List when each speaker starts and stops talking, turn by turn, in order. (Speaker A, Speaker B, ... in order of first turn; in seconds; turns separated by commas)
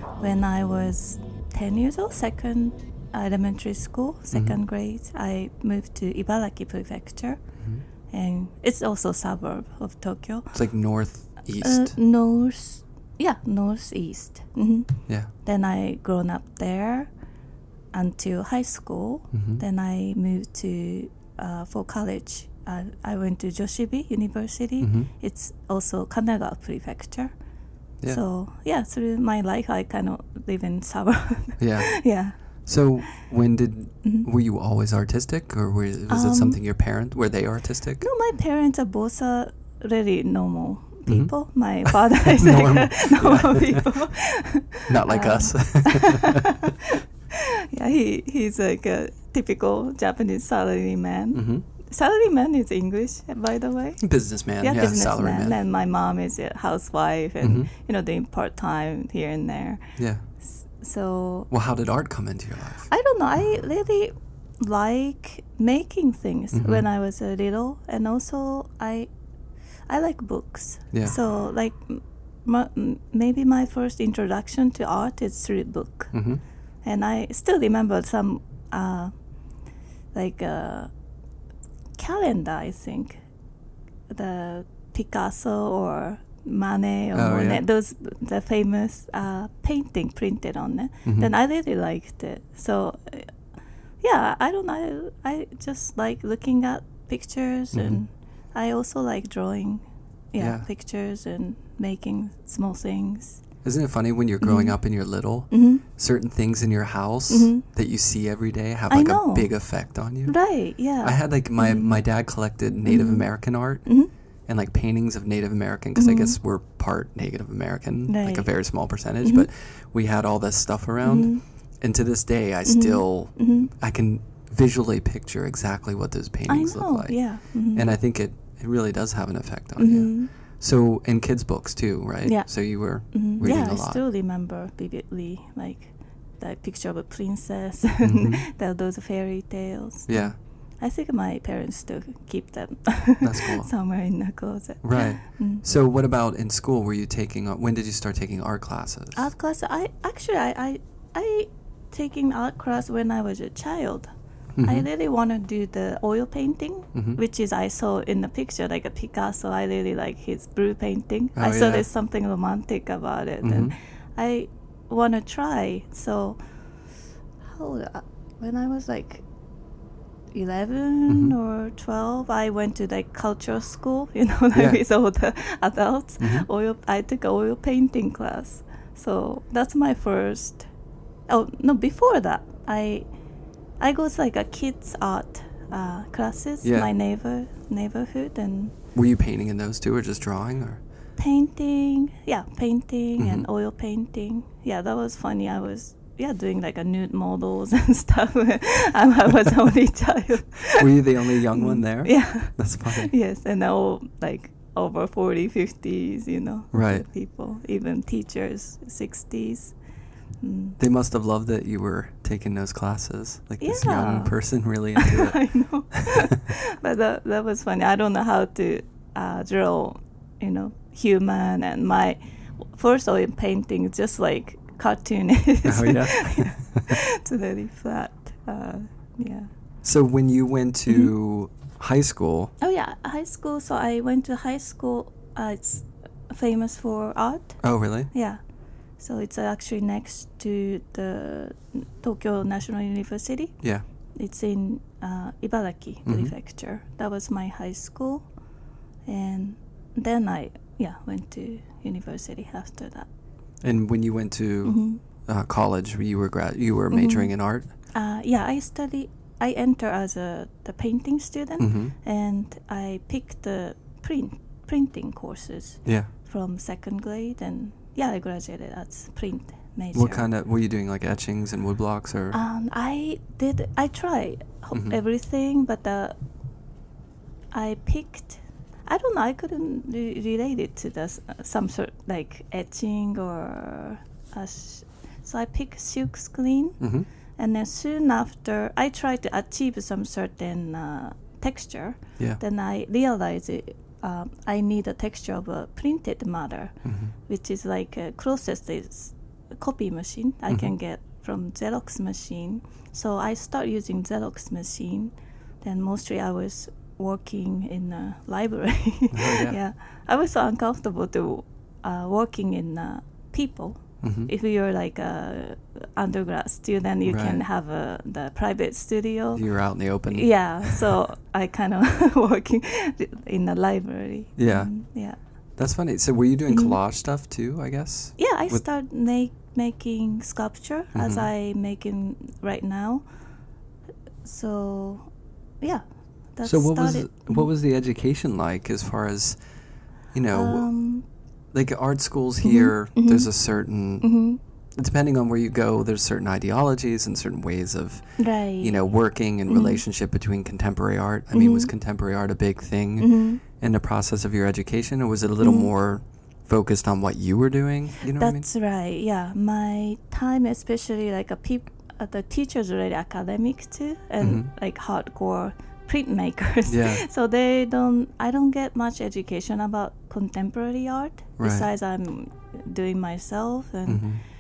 Speaker A: 0.2-7.4, Speaker A: 8.1-10.6, Speaker B: 10.5-12.0, Speaker A: 11.6-17.1, Speaker A: 17.9-27.4, Speaker B: 19.3-19.6, Speaker B: 24.8-25.1, Speaker A: 28.0-32.7, Speaker B: 31.6-38.0, Speaker A: 36.1-36.6, Speaker A: 38.0-46.7, Speaker B: 41.1-44.0, Speaker B: 44.9-46.4, Speaker A: 47.7-59.8, Speaker B: 51.3-51.6, Speaker B: 54.0-55.6, Speaker B: 57.4-57.7, Speaker B: 60.0-60.2, Speaker A: 60.3-61.5, Speaker B: 61.5-62.9, Speaker A: 62.9-69.1, Speaker B: 66.5-66.8, Speaker A: 69.9-81.0, Speaker B: 76.1-76.4, Speaker A: 82.0-83.2, Speaker A: 84.1-93.4, Speaker B: 87.1-87.6, Speaker B: 91.0-91.3, Speaker A: 94.0-103.4, Speaker B: 97.7-98.0, Speaker B: 100.4-100.7, Speaker B: 103.6-134.0, Speaker A: 104.4-105.8, Speaker A: 107.3-107.6, Speaker A: 108.9-112.0, Speaker A: 112.8-114.1, Speaker A: 116.0-116.4, Speaker A: 118.1-119.5, Speaker A: 121.0-121.4, Speaker A: 122.7-123.7, Speaker A: 126.5-127.9, Speaker A: 129.8-130.3, Speaker A: 132.2-145.6, Speaker B: 138.0-138.4, Speaker B: 140.1-140.4, Speaker B: 143.2-143.7, Speaker B: 144.8-149.2, Speaker A: 149.1-154.1, Speaker B: 154.6-154.9, Speaker A: 154.6-166.7, Speaker B: 156.9-157.2, Speaker B: 161.4-161.9, Speaker B: 163.4-163.7, Speaker A: 167.4-169.2, Speaker A: 170.3-180.7, Speaker B: 171.1-171.3, Speaker B: 174.5-174.8, Speaker B: 176.2-176.5, Speaker A: 181.3-183.1, Speaker A: 183.8-188.7, Speaker B: 186.6-186.9, Speaker B: 188.9-190.8, Speaker A: 191.2-209.8, Speaker B: 193.2-193.5, Speaker B: 200.8-203.1, Speaker B: 206.7-207.1, Speaker A: 210.4-210.8, Speaker B: 210.8-216.0, Speaker A: 213.6-229.5, Speaker B: 225.7-226.9, Speaker B: 229.8-232.5, Speaker A: 232.6-238.4, Speaker B: 237.6-238.1, Speaker A: 239.0-248.3, Speaker B: 246.1-246.3, Speaker A: 249.1-253.1, Speaker B: 253.6-257.7, Speaker A: 254.6-255.0, Speaker A: 256.9-270.3, Speaker B: 261.6-261.9, Speaker B: 265.9-266.1, Speaker B: 269.9-272.4, Speaker A: 272.3-276.2, Speaker B: 274.7-275.0, Speaker A: 277.5-325.3, Speaker B: 286.8-287.1, Speaker B: 296.9-297.1, Speaker B: 309.1-309.6, Speaker B: 314.0-314.3, Speaker B: 317.1-317.4, Speaker B: 319.4-320.9, Speaker B: 324.4-328.6, Speaker A: 326.5-326.8, Speaker A: 328.2-333.1, Speaker B: 330.9-331.3, Speaker A: 334.2-337.5, Speaker B: 336.4-339.4, Speaker B: 340.1-340.8, Speaker A: 340.3-341.1, Speaker B: 341.5-358.5, Speaker A: 342.4-344.4, Speaker A: 348.2-348.8, Speaker A: 349.5-349.8, Speaker A: 351.3-351.7, Speaker A: 353.0-353.4, Speaker A: 355.4-355.7, Speaker A: 358.1-374.2, Speaker B: 364.2-364.5, Speaker B: 366.7-367.0, Speaker B: 371.4-371.7, Speaker B: 373.9-374.2